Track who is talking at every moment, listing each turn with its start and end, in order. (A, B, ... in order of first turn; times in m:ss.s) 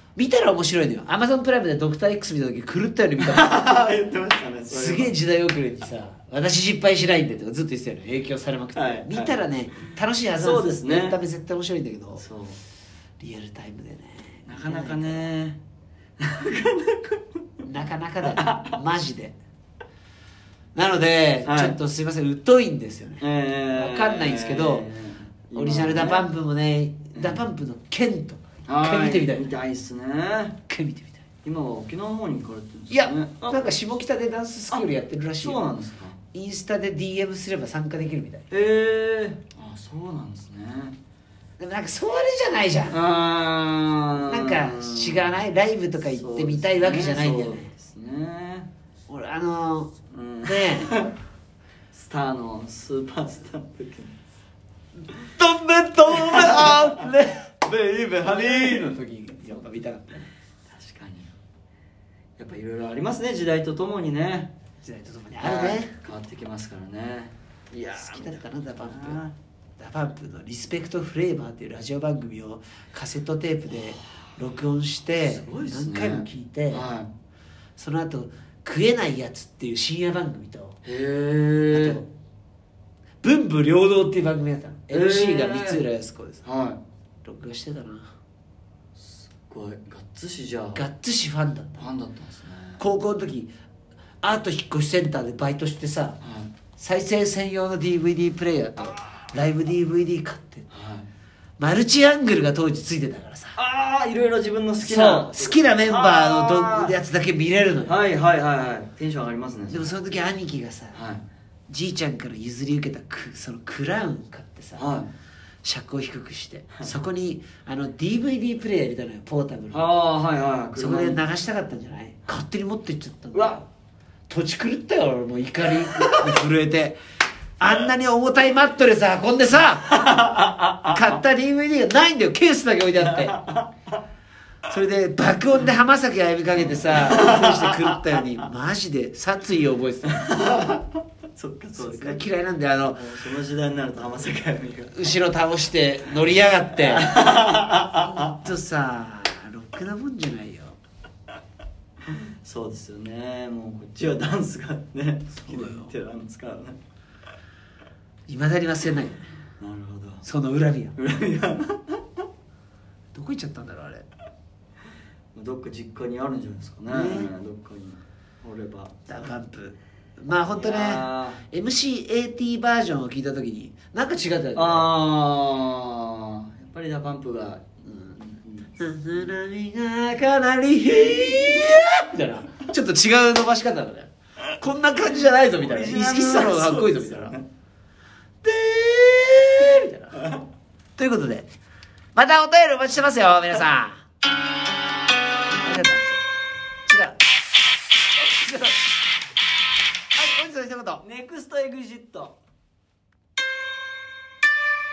0:00.2-0:03.6 A
0:03.2-0:05.2 B
0:04.7-0:12.2 A
0:08.8-0:09.4 B
0:10.4-0:11.2 B
0:12.2-0:12.6 B
0:13.2-0:15.3 A
0:14.5-0:15.6 B
0:16.2-0:17.2 B
0:17.6-0:19.4 A
0:18.2-0:18.8 B
0:20.8-0:23.2 A
0:21.4-0:21.8 B
0:23.2-0:26.3 B
0:23.7-0:24.9 A
0:25.5-0:29.5 A
0:27.1-0:27.4 B
0:28.7-0:30.6 B
0:30.7-0:31.2 A
0:31.4-0:33.8 B
0:32.9-0:35.6 A
0:34.7-0:36.2 B
0:36.3-0:38.5 A
0:38.5-0:41.0 B
0:41.6-0:43.0 A
0:42.9-0:45.4 B
0:44.2-0:47.7 A
0:46.0-0:48.7 B
0:49.1-0:49.9 A
0:50.1-0:51.1 B
0:50.4-0:50.9 A
0:51.9-0:54.2 B
0:55.2-1:00.3 A
0:56.2-0:56.8 B
0:58.3-0:58.8 B
1:00.7-1:01.3 B
1:02.4-1:04.5 B
1:04.8-1:05.9 A
1:05.4-1:09.3 B
1:08.0-1:09.2 A
1:09.8-1:16.9 A
1:15.2-1:17.1 B
1:17.8-1:20.8 A
1:20.8-1:22.0 B
1:21.7-1:22.1 A
1:23.2-1:26.4 A
1:24.9-1:25.8 B
1:26.4-1:26.8 B
1:27.2-1:28.1 A
1:29.0-1:30.8 B
1:30.8-1:31.8 A
1:31.8-1:32.8 B
1:32.8-1:33.5 A
1:34.2-1:36.2 A
1:36.2-1:36.5 B
1:36.8-1:40.7 A
1:39.0-1:39.2 B
1:40.7-1:41.1 B
1:41.6-1:43.6 A
1:43.6-1:47.0 B
1:44.8-1:48.0 A
1:47.8-1:50.0 B
1:49.7-1:51.0 A
1:50.9-1:51.2 B
1:51.7-1:54.8 A
1:54.8-1:55.1 B
1:55.6-1:59.9 A
1:59.7-2:01.2 B
2:00.8-2:03.6 A
2:03.3-2:03.6 B
2:04.3-2:07.0 A
2:05.8-2:06.2 B
2:07.6-2:10.1 A
2:09.9-2:11.0 B
2:10.9-2:13.4 A
2:13.0-2:13.7 B
2:14.7-2:20.3 A
2:16.6-2:18.3 B
2:20.1-2:22.2 B
2:21.8-2:23.0 A
2:22.9-2:25.1 B
2:24.9-2:27.2 A
2:26.8-2:28.2 B
2:27.9-2:30.8 A
2:32.1-2:36.8 B
2:35.4-2:35.9 A
2:38.3-2:39.2 A
2:39.6-2:40.2 B
2:40.2-2:41.0 A
2:41.0-2:42.0 B
2:43.1-2:44.1 A
2:45.3-2:48.9 B
2:46.9-2:47.3 A
2:49.1-2:54.9 A
2:50.5-2:51.4 B
2:54.6-2:58.7 B
2:58.8-3:07.4 A
3:01.1-3:01.7 B
3:05.0-3:07.5 B
3:08.4-3:10.2 A
3:10.2-3:10.4 B
3:11.0-3:11.5 A
3:12.2-3:14.0 A
3:15.6-3:16.0 A
3:15.6-3:16.2 B
3:16.9-3:17.2 A
3:18.2-3:18.8 A
3:20.2-3:21.0 A
3:21.0-3:22.4 B